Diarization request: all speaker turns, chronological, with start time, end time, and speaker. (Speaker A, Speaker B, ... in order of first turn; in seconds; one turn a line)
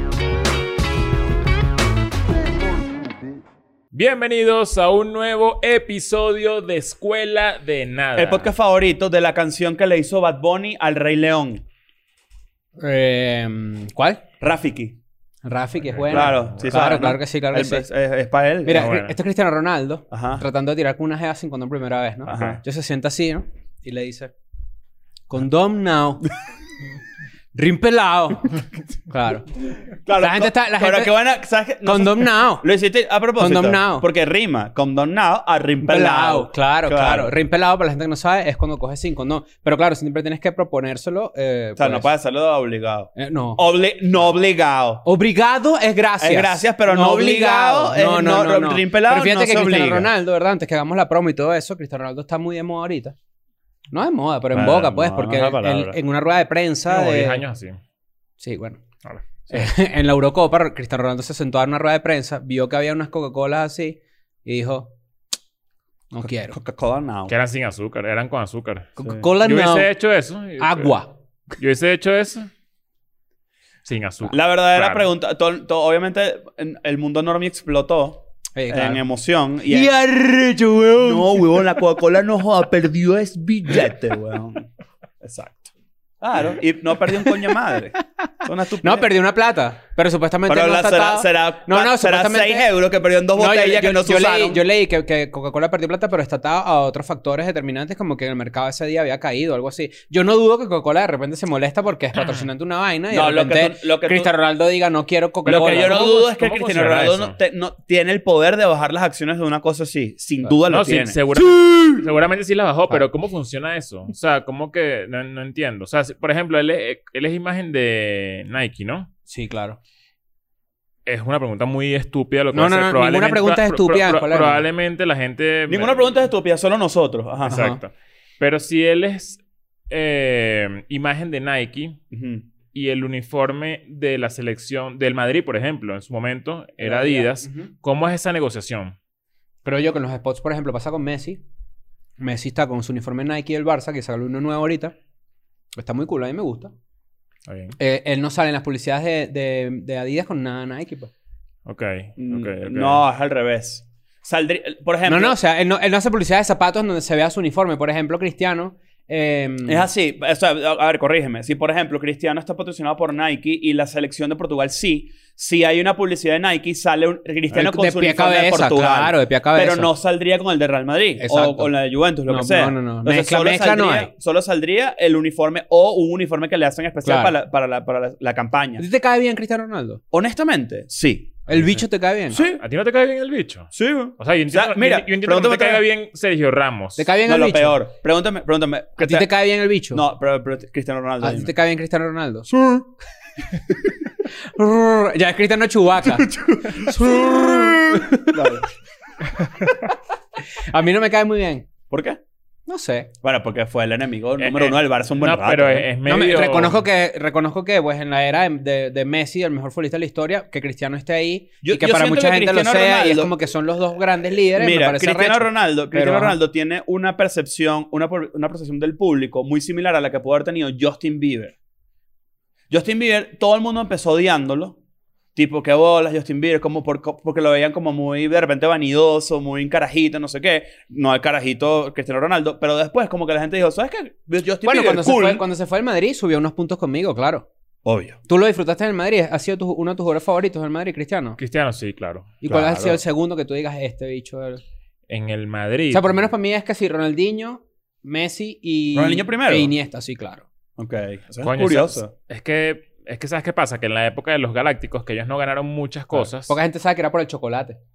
Speaker A: 3.9-8.5
Speaker B: 8.2-11.7
Speaker C: 12.8-14.2
Speaker B: 14.4-15.0
Speaker C: 15.4-17.9
Speaker A: 15.9-16.7
Speaker B: 16.1-18.9
Speaker C: 18.6-24.3
Speaker A: 18.8-19.1
Speaker B: 20.1-20.4
Speaker B: 22.3-22.6
Speaker C: 25.3-26.3
Speaker C: 27.6-29.5
Speaker B: 29.8-37.3
Speaker C: 30.2-31.2
Speaker C: 31.8-32.7
Speaker C: 33.4-34.1
Speaker C: 35.9-42.1
Speaker B: 41.8-45.0
Speaker C: 43.2-43.6
Speaker C: 45.0-53.1
Speaker B: 46.2-50.1
Speaker C: 53.9-57.4
Speaker B: 54.5-56.0
Speaker A: 56.9-57.8
Speaker C: 58.4-58.8
Speaker C: 59.5-64.9
Speaker C: 66.1-66.5
Speaker B: 66.2-67.3
Speaker A: 67.3-68.9
Speaker C: 69.0-69.9
Speaker A: 69.4-71.0
Speaker C: 70.6-71.1
Speaker A: 71.6-72.5
Speaker A: 73.8-75.1
Speaker B: 74.3-79.9
Speaker C: 78.5-79.0
Speaker C: 79.7-81.8
Speaker B: 81.0-84.7
Speaker B: 85.2-89.1
Speaker C: 88.8-92.7
Speaker B: 90.5-94.6
Speaker C: 93.3-106.0
Speaker A: 102.2-102.5
Speaker B: 103.1-104.3
Speaker A: 105.5-107.3
Speaker B: 105.5-111.2
Speaker A: 110.7-119.1
Speaker C: 111.6-112.0
Speaker C: 119.3-119.8
Speaker A: 121.1-126.2
Speaker C: 122.5-124.7
Speaker B: 125.7-127.7
Speaker C: 127.5-127.8
Speaker A: 127.5-132.0
Speaker B: 132.1-132.5
Speaker A: 132.7-138.9
Speaker C: 136.8-137.7
Speaker C: 139.6-141.4
Speaker C: 142.2-144.9
Speaker C: 145.7-146.7
Speaker A: 147.5-147.8
Speaker C: 147.8-151.1
Speaker A: 151.7-153.0
Speaker B: 152.2-155.3
Speaker C: 155.1-159.9
Speaker B: 159.7-178.8
Speaker C: 167.5-169.9
Speaker C: 171.2-171.7
Speaker C: 172.3-174.1
Speaker C: 177.0-177.3
Speaker C: 178.8-180.0
Speaker B: 180.1-181.6
Speaker C: 181.5-182.4
Speaker B: 182.3-182.6
Speaker A: 182.6-187.1
Speaker B: 183.7-185.8
Speaker C: 187.0-187.8
Speaker B: 187.2-189.3
Speaker C: 189.0-190.0
Speaker B: 189.9-191.5
Speaker C: 191.2-192.5
Speaker B: 192.5-192.9
Speaker C: 194.6-198.6
Speaker B: 196.0-198.7
Speaker C: 200.7-201.7
Speaker B: 201.9-202.2
Speaker C: 202.7-203.1
Speaker B: 203.2-205.9
Speaker A: 204.4-206.8
Speaker C: 206.1-216.4
Speaker B: 211.6-213.3
Speaker B: 214.5-221.6
Speaker B: 222.7-224.8
Speaker B: 225.3-235.4
Speaker C: 234.6-237.5
Speaker B: 237.8-238.2
Speaker C: 238.3-241.4
Speaker A: 241.4-242.4
Speaker C: 242.4-244.6
Speaker B: 242.5-243.0
Speaker A: 245.1-246.1
Speaker C: 245.9-250.4
Speaker B: 248.9-249.7
Speaker B: 250.8-252.1
Speaker A: 251.4-256.6
Speaker C: 256.5-257.8